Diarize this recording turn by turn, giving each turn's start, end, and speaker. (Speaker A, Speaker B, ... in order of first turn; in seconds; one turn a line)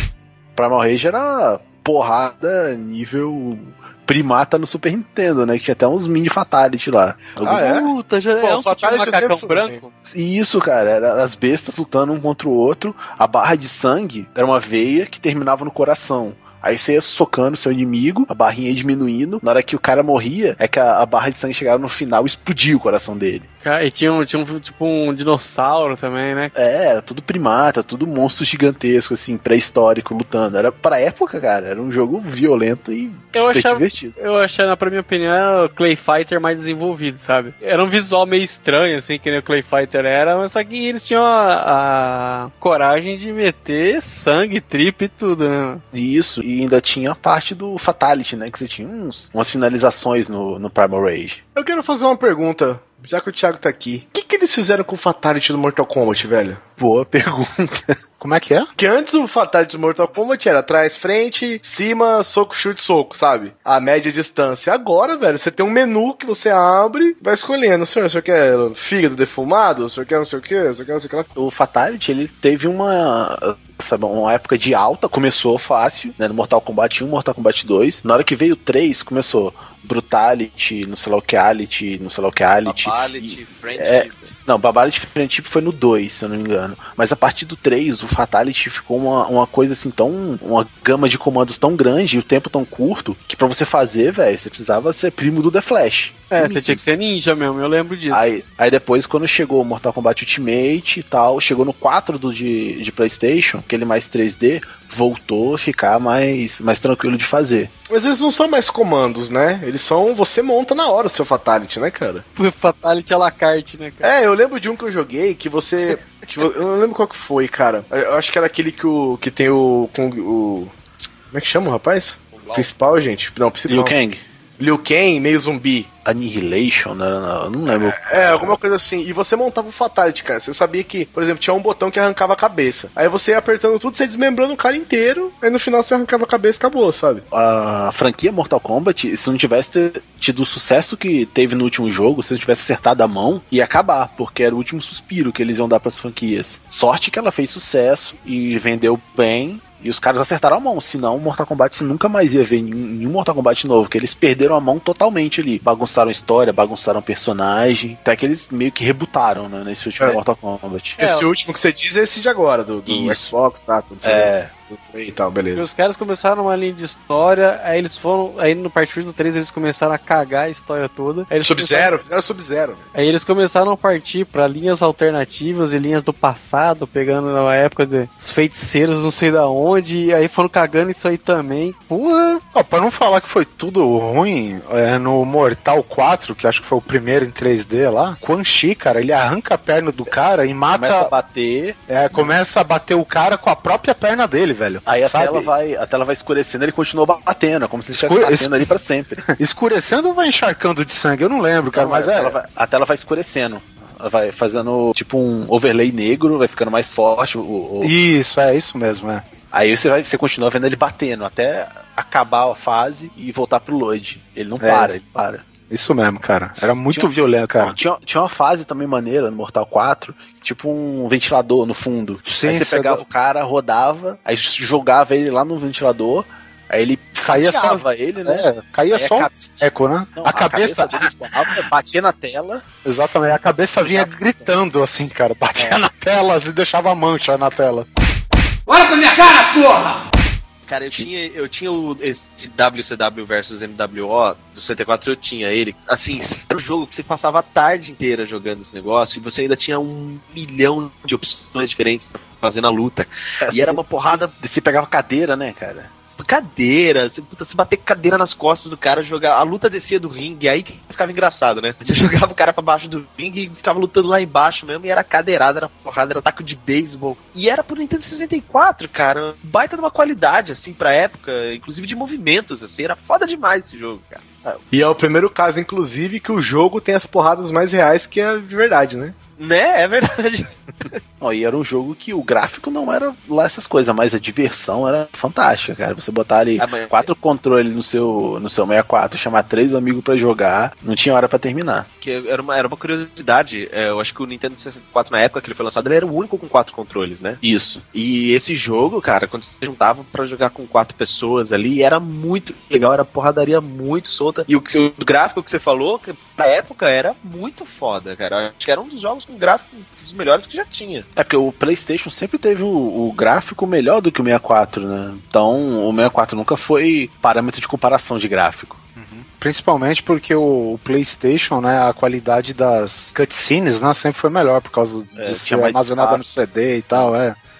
Speaker A: 0.6-7.7
Speaker B: 7.4-9.8
Speaker C: 7.5-9.9
Speaker A: 10.0-23.5
Speaker C: 23.6-26.5
Speaker A: 26.6-34.1
Speaker C: 33.3-45.8
Speaker A: 45.9-51.4
Speaker B: 51.5-56.6
Speaker A: 56.8-58.0
Speaker D: 58.2-58.7
Speaker B: 58.8-71.3
Speaker A: 71.4-96.8
Speaker E: 82.6-84.3
Speaker C: 96.3-98.2
Speaker A: 98.1-107.7
Speaker B: 107.9-112.2
Speaker C: 112.4-114.1
Speaker B: 114.0-120.7
Speaker B: 121.3-124.0
Speaker E: 122.3-122.7
Speaker A: 123.7-124.2
Speaker B: 124.6-125.9
Speaker A: 126.0-128.6
Speaker B: 127.7-137.2
Speaker A: 137.3-161.0
Speaker C: 161.0-161.4
Speaker B: 161.0-165.7
Speaker A: 162.9-163.3
Speaker A: 164.0-164.5
Speaker C: 165.6-171.9
Speaker B: 171.3-172.8
Speaker C: 172.9-182.4
Speaker D: 182.5-191.1
Speaker A: 190.7-191.8
Speaker D: 191.9-195.5
Speaker A: 194.9-199.3
Speaker D: 197.9-198.7
Speaker D: 199.3-202.4
Speaker A: 201.7-207.9
Speaker D: 207.8-209.2
Speaker A: 209.5-215.5
Speaker D: 214.6-214.9
Speaker D: 215.7-217.8
Speaker A: 217.6-229.6
Speaker D: 222.2-223.0
Speaker D: 227.3-231.7
Speaker A: 230.2-232.7
Speaker D: 232.8-237.9
Speaker A: 233.8-234.1
Speaker E: 240.7-254.3
Speaker A: 253.4-255.9
Speaker E: 256.2-274.4
Speaker B: 274.7-279.1
Speaker E: 279.4-281.0
Speaker A: 281.2-291.9
Speaker E: 286.6-287.1
Speaker E: 292.0-297.4
Speaker A: 297.4-297.8
Speaker E: 297.9-311.1
Speaker A: 311.2-318.8
Speaker D: 319.0-327.4
Speaker E: 325.2-326.2
Speaker A: 325.6-326.2